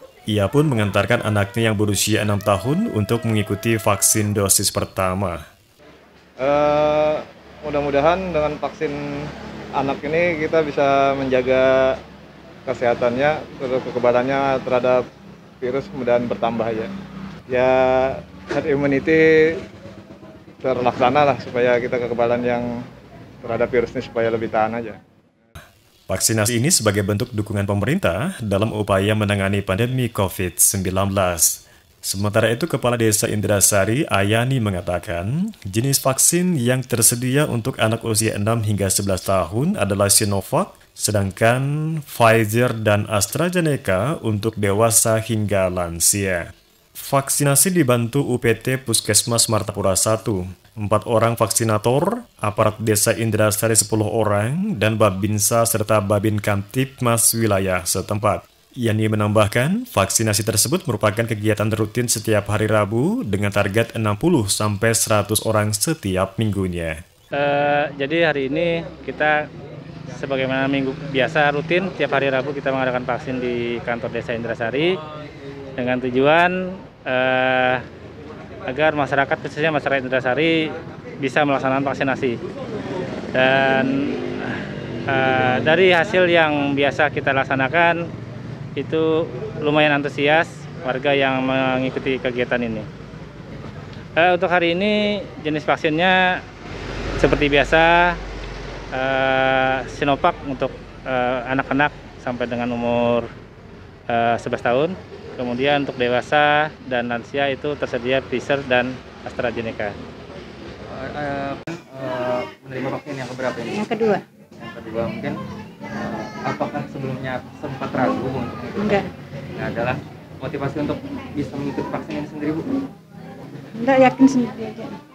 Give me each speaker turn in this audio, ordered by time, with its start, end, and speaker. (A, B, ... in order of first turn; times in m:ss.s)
0:00.3-0:05.4 A
0:06.4-0:09.0 B
0:09.8-0:12.0 B
0:12.6-0:15.0 B
0:15.6-0:16.9 B
0:17.5-0:19.6 B
0:20.6-0:22.7 B
0:23.4-0:25.0 B
0:26.1-1:07.0 A
1:07.3-1:09.4 C
1:10.1-1:15.0 C
1:15.8-1:17.8 C
1:18.7-1:22.4 C
1:23.3-1:28.0 C
1:28.8-1:32.9 C
1:34.2-1:36.4 C
1:37.2-1:38.2 C
1:38.9-1:43.3 C
1:44.1-1:49.9 C
1:50.9-1:53.9 D
1:53.7-1:54.2 E
1:54.6-1:55.4 D
1:56.0-1:59.0 D
1:58.8-1:59.1 E
1:59.5-2:02.8 D
2:03.7-2:05.0 E